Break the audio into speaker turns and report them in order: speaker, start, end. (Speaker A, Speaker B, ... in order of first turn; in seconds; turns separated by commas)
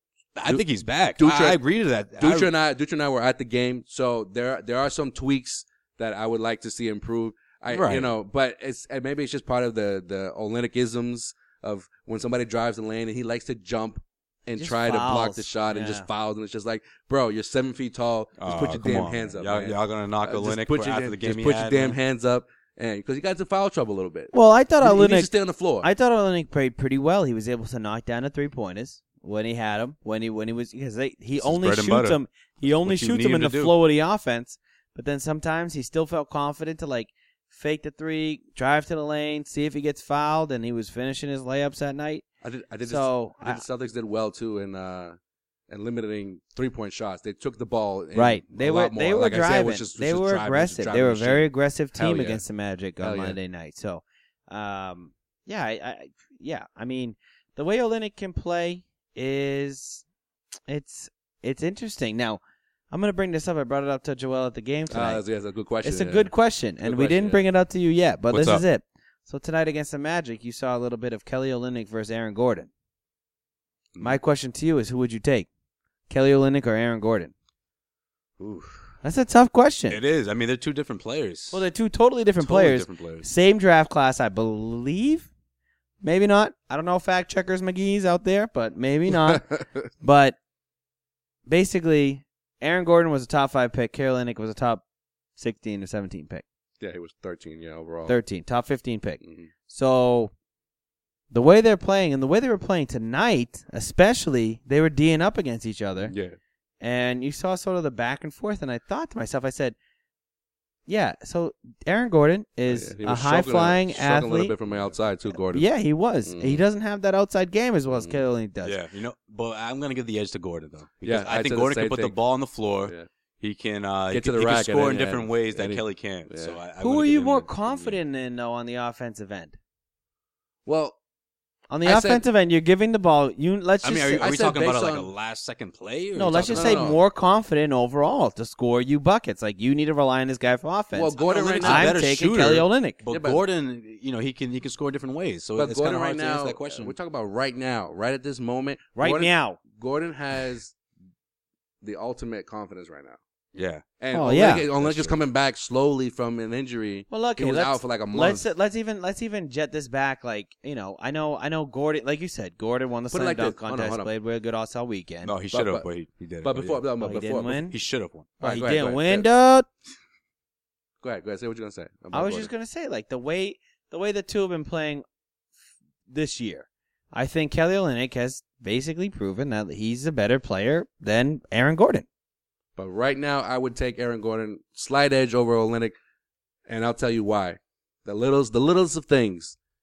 Speaker A: 0.4-2.5, Speaker B: 1.2-1.6, Speaker B: 2.2-25.9, Speaker A: 7.7-8.1, Speaker C: 14.6-16.1, Speaker A: 18.4-22.0, Speaker C: 24.3-25.3, Speaker C: 25.8-42.2, Speaker A: 31.4-33.7, Speaker B: 42.4-45.2, Speaker C: 42.9-43.6, Speaker B: 45.7-52.4, Speaker C: 48.1-60.0, Speaker B: 53.0-53.4, Speaker C: 60.7-65.2, Speaker B: 64.9-66.3, Speaker C: 65.8-72.7, Speaker B: 66.8-67.5, Speaker A: 68.3-68.6, Speaker C: 74.0-75.5, Speaker C: 76.1-77.3, Speaker A: 78.4-78.8, Speaker C: 79.0-80.0, Speaker A: 79.9-81.6, Speaker C: 81.5-85.3, Speaker A: 82.4-83.2, Speaker C: 86.0-89.5, Speaker B: 89.3-89.8, Speaker C: 90.0-90.4, Speaker C: 91.5-94.8, Speaker C: 95.4-96.4, Speaker B: 96.8-98.2, Speaker C: 98.1-100.3, Speaker B: 99.2-99.5, Speaker C: 101.3-106.1, Speaker B: 106.1-106.4, Speaker C: 106.8-109.8, Speaker C: 110.9-114.5, Speaker B: 112.7-115.7, Speaker C: 115.3-118.8, Speaker B: 116.2-116.6, Speaker B: 117.9-118.2, Speaker A: 118.6-128.0, Speaker B: 121.0-122.2, Speaker B: 124.1-126.6, Speaker C: 126.8-129.6, Speaker B: 130.7-131.0, Speaker C: 131.7-134.3, Speaker B: 131.8-132.2, Speaker A: 133.8-136.9, Speaker B: 134.2-135.1, Speaker C: 136.2-143.0, Speaker B: 136.5-137.0, Speaker B: 140.9-141.9, Speaker A: 141.2-146.9, Speaker B: 143.1-143.4, Speaker B: 145.6-150.7, Speaker C: 149.0-149.6, Speaker B: 151.8-153.2, Speaker A: 153.5-153.8, Speaker B: 154.0-158.4, Speaker C: 154.1-154.7, Speaker A: 154.8-155.2, Speaker C: 157.1-165.3, Speaker B: 163.1-164.1, Speaker A: 165.2-166.8, Speaker B: 165.5-165.9, Speaker B: 166.4-167.6, Speaker C: 167.0-167.8, Speaker A: 167.7-168.3, Speaker B: 168.4-169.3, Speaker C: 168.4-169.7, Speaker B: 171.0-172.5, Speaker C: 172.1-175.0, Speaker C: 176.1-182.1, Speaker B: 182.8-185.9, Speaker B: 186.7-189.6